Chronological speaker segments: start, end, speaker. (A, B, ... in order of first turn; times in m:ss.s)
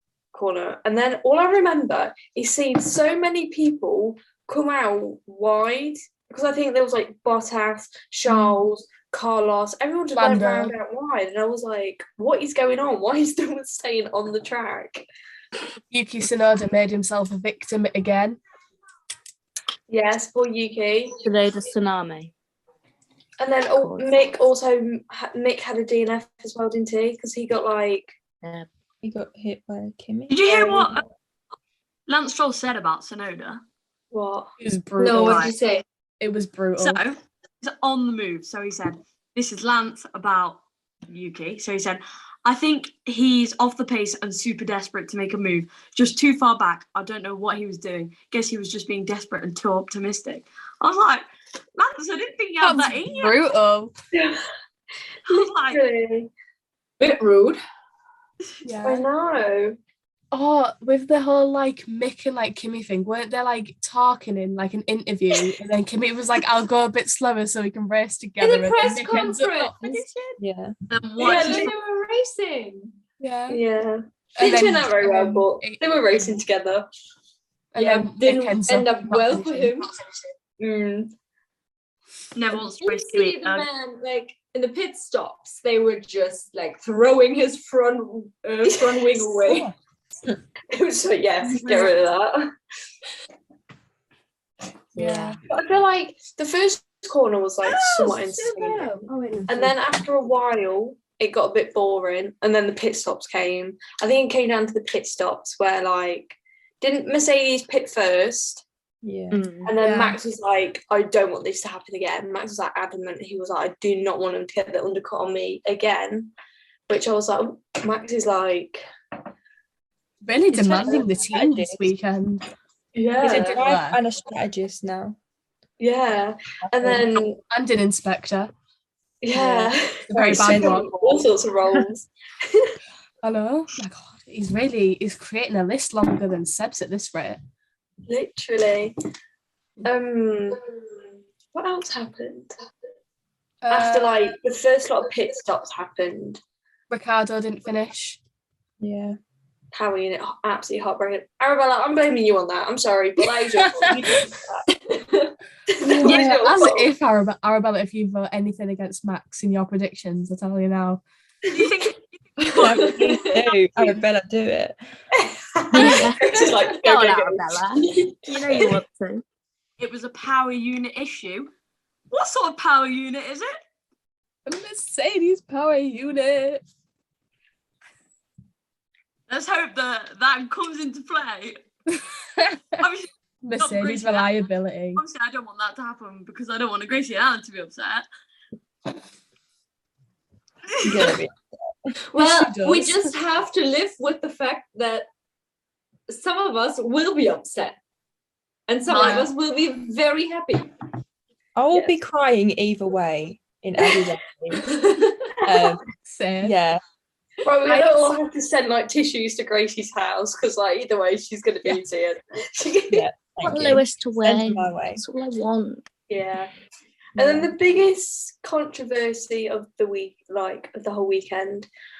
0:00.3-0:15.0 A
0:08.3-0:08.6 B
0:10.1-0:10.7 B
0:15.9-0:18.4 B
0:19.9-0:21.2 A
0:21.2-0:22.3 C
0:23.4-0:28.1 A
0:23.7-0:24.3 C
0:28.4-0:28.7 C
0:29.0-0:30.8 D
0:30.3-0:31.0 E
0:32.1-0:33.6 E
0:34.1-0:34.5 A
0:34.6-0:35.5 B
0:35.0-0:35.8 F
0:35.1-0:35.5 E
0:36.2-0:37.0 B
0:36.8-0:53.4 E
0:52.6-0:53.9 B
0:54.1-0:54.4 A
0:55.2-0:55.8 E
0:55.3-0:56.3 A
0:57.0-0:57.6 F
0:58.6-0:59.1 B
0:58.8-0:59.8 A
1:00.3-1:10.2 B
1:08.4-1:09.9 F
1:10.4-1:10.7 D
1:10.9-1:11.7 E
1:11.2-1:12.9 F
1:11.2-1:11.7 A
1:13.2-1:13.6 B
1:13.5-1:16.9 A
1:14.4-1:15.8 B
1:17.7-1:19.9 B
1:17.8-1:19.9 F
1:20.6-1:21.1 A
1:22.3-1:23.7 E
1:22.8-1:29.7 F
1:28.6-1:29.6 A
1:30.7-1:32.5 A
1:31.5-1:31.9 B
1:34.9-1:35.4 B
1:35.0-1:35.4 C
1:35.5-1:38.9 A
1:37.7-1:38.9 F
1:38.6-1:39.1 B
1:39.5-1:48.6 A
1:49.0-1:49.5 D
1:49.3-1:49.7 C
1:49.6-1:56.3 A
1:49.8-1:50.2 B
1:56.9-1:58.8 A
2:00.2-2:02.4 B
2:00.5-2:01.9 D
2:02.9-2:03.6 A
2:03.2-2:05.2 D
2:03.2-2:04.0 B
2:05.8-2:07.4 A
2:06.7-2:07.0 D
2:07.5-2:08.5 B
2:09.2-2:12.7 A
2:09.3-2:11.2 D
2:10.1-2:10.9 B
2:13.2-2:17.4 B
2:18.1-2:18.9 A
2:19.8-2:20.6 A
2:21.5-2:22.5 A
2:23.6-2:24.2 B
2:23.7-2:26.4 A
2:26.9-2:28.2 B
2:28.8-2:29.2 D
2:29.7-2:34.7 A
2:34.9-2:35.3 F
2:35.7-2:36.9 A
2:35.8-2:41.0 B
2:41.5-2:43.1 E
2:42.4-2:44.8 D
2:45.1-2:48.8 A
2:45.7-2:49.2 C
2:45.8-2:46.1 D
2:49.8-2:51.5 E
2:52.1-2:53.6 E
2:54.4-2:56.6 B
2:59.3-3:01.6 E
3:02.0-3:02.8 B
3:02.8-3:04.4 E
3:03.4-3:05.0 B
3:05.0-3:08.0 E
3:10.8-3:11.6 D
3:10.8-3:11.1 E
3:12.1-3:13.1 B
3:12.1-3:15.0 F
3:16.1-3:17.8 F
3:18.7-3:20.7 F
3:18.9-3:19.3 E
3:21.6-3:24.7 D
3:24.7-3:25.3 F
3:25.4-3:25.8 D
3:26.0-3:26.6 B
3:26.4-3:26.8 D
3:27.4-3:33.0 A
3:27.6-3:28.0 B
3:32.9-3:35.0 D
3:33.4-3:35.8 C
3:36.1-3:36.5 A
3:37.2-3:41.7 A